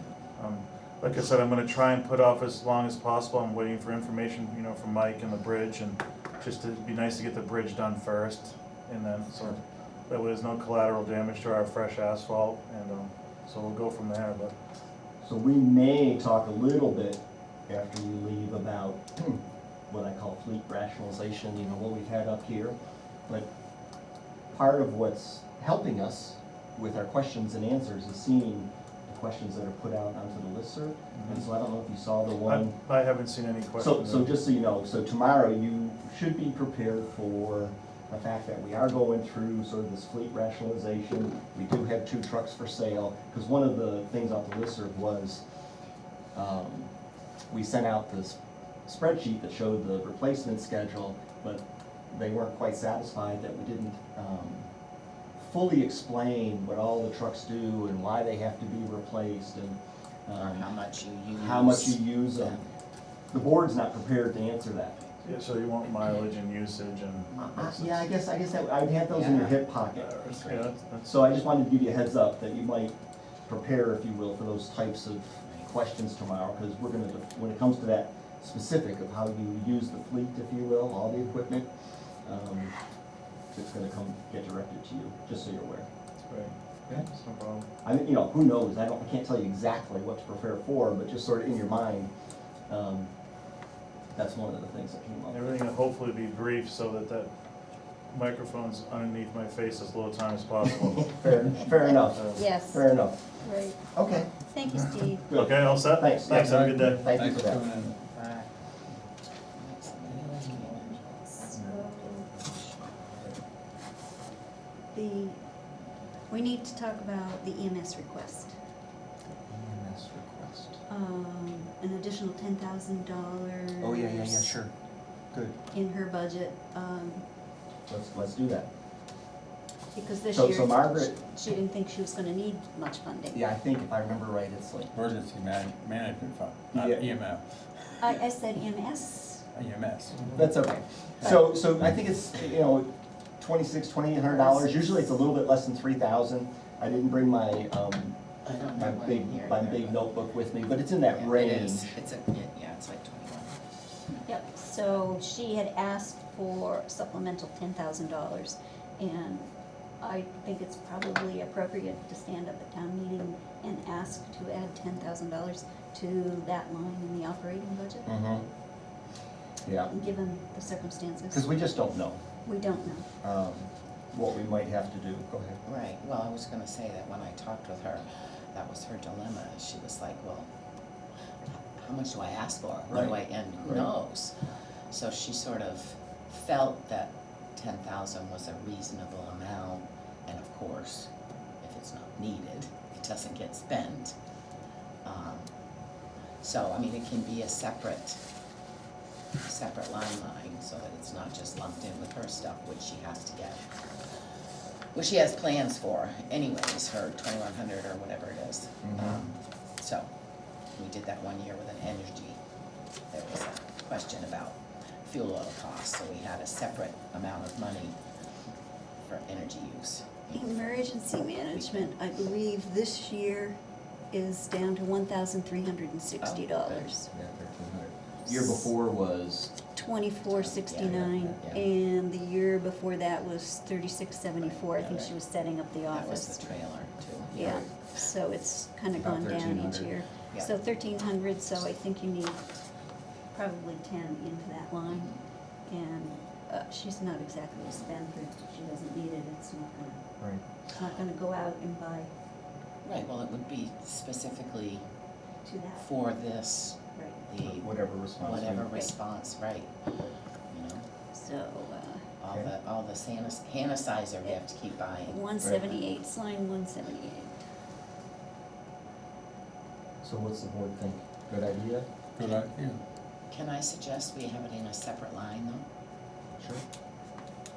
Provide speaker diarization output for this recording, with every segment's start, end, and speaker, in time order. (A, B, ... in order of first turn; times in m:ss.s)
0:00.4-0:14.5 A
0:15.2-0:22.8 B
0:24.5-0:32.8 B
0:31.1-0:31.5 A
0:32.4-0:34.4 A
0:33.8-0:45.4 B
0:46.3-0:46.9 B
0:47.5-0:54.7 B
0:55.4-1:00.7 B
1:00.3-1:02.7 C
1:01.3-1:02.6 B
1:03.3-1:05.0 B
1:05.2-1:08.0 A
1:07.4-1:21.7 B
1:09.1-1:09.6 C
1:09.9-1:11.2 A
1:15.4-1:15.7 C
1:22.2-1:22.7 B
1:23.5-1:25.9 B
1:26.2-1:27.7 A
1:27.8-1:32.1 B
1:32.7-1:33.1 B
1:34.1-1:35.5 B
1:35.3-1:37.3 A
1:38.1-1:42.4 A
1:40.6-1:43.2 B
1:42.3-1:42.9 D
1:43.4-1:43.8 D
1:43.9-1:44.3 B
1:44.5-1:45.3 D
1:45.3-1:47.7 B
1:45.3-1:47.1 A
1:46.4-1:48.0 E
1:47.9-1:48.5 C
1:49.5-1:53.2 C
1:51.5-1:52.3 D
1:54.9-1:55.4 D
1:56.3-1:58.5 D
1:59.4-2:00.8 B
2:00.9-2:04.5 D
2:03.8-2:04.7 B
2:05.3-2:05.6 B
2:05.7-2:07.2 D
2:07.9-2:08.7 B
2:09.9-2:13.4 D
2:10.3-2:11.1 B
2:13.3-2:14.9 B
2:14.9-2:18.1 E
2:16.7-2:17.1 B
2:18.0-2:19.4 D
2:19.5-2:20.3 E
2:20.2-2:28.2 B
2:24.3-2:25.2 D
2:28.4-2:30.0 C
2:28.7-2:31.9 B
2:31.1-2:33.6 C
2:34.2-2:39.5 D
2:40.0-2:48.1 D
2:48.0-2:48.4 B
2:49.6-2:49.9 B
2:49.9-2:51.6 D
2:51.3-2:52.2 B
2:52.4-2:53.1 D
2:53.2-2:55.6 B
2:55.6-3:00.5 C
3:01.8-3:04.3 C
3:02.9-3:03.9 B
3:04.9-3:11.1 C
3:11.6-3:14.1 C
3:15.0-3:15.5 C
3:16.4-3:18.2 C
3:19.4-3:23.6 C
3:24.9-3:30.1 C
3:28.8-3:29.2 B
3:30.8-3:32.4 C
3:33.1-3:38.0 C
3:39.0-3:41.9 C
3:40.3-3:43.6 D
3:44.1-3:47.1 D
3:46.2-3:46.9 C
3:47.1-3:49.5 B
3:48.2-3:48.7 D
3:49.7-3:56.5 D
3:50.3-3:51.6 C
3:50.9-3:51.3 B
3:54.4-3:55.1 C
3:55.9-3:57.6 C
3:57.3-3:57.6 B
3:57.3-4:02.4 D
3:59.0-3:59.9 B
4:03.3-4:05.1 D
4:04.9-4:05.2 C
4:05.7-4:10.0 D
4:10.7-4:12.1 D
4:12.8-4:14.8 C
4:15.4-4:15.9 D
4:15.8-4:20.8 C
4:16.9-4:17.2 D
4:17.4-4:18.7 B
4:21.1-4:22.0 D
4:22.2-4:25.2 C
4:25.0-4:27.4 D
4:25.4-4:25.7 B
4:30.0-4:31.9 B
4:32.2-4:32.8 E
4:33.3-4:35.6 C